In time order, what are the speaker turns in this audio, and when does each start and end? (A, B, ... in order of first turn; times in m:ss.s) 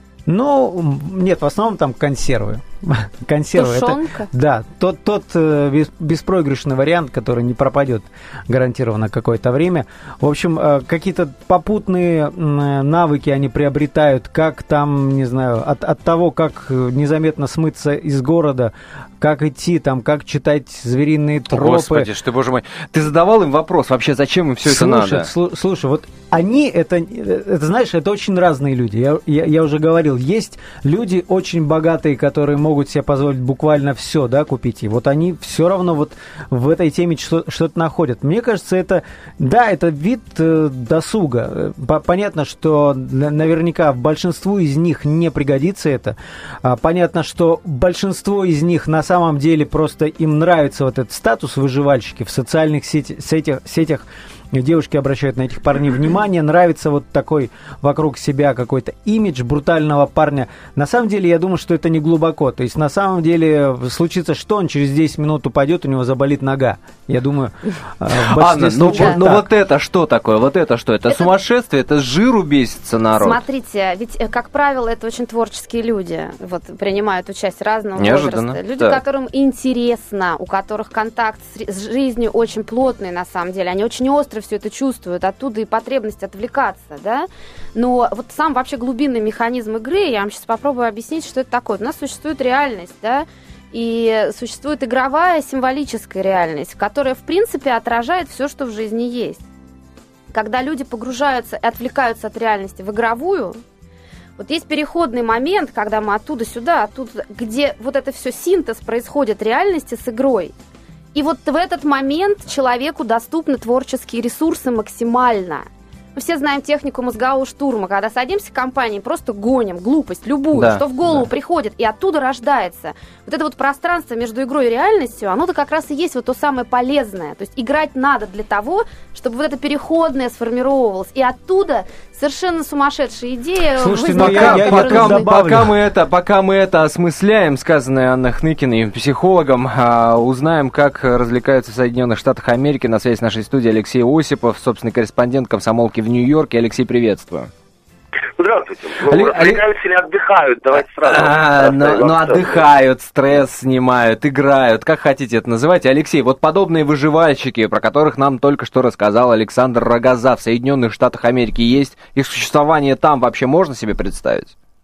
0:00.3-0:22.1 A
0:03.6-0:04.3 B
0:21.5-0:25.3 C
0:24.6-1:09.4 A
1:08.1-1:13.4 C
1:08.9-1:09.2 B
1:13.2-1:39.4 B
1:18.0-1:19.0 C
1:40.3-1:43.6 B
1:44.4-1:50.6 B
1:51.1-2:15.3 B
2:00.6-2:01.3 C
2:13.8-2:15.7 A
2:14.1-2:27.5 C
2:28.4-2:32.6 D
2:29.1-2:29.6 C
2:31.0-2:44.5 C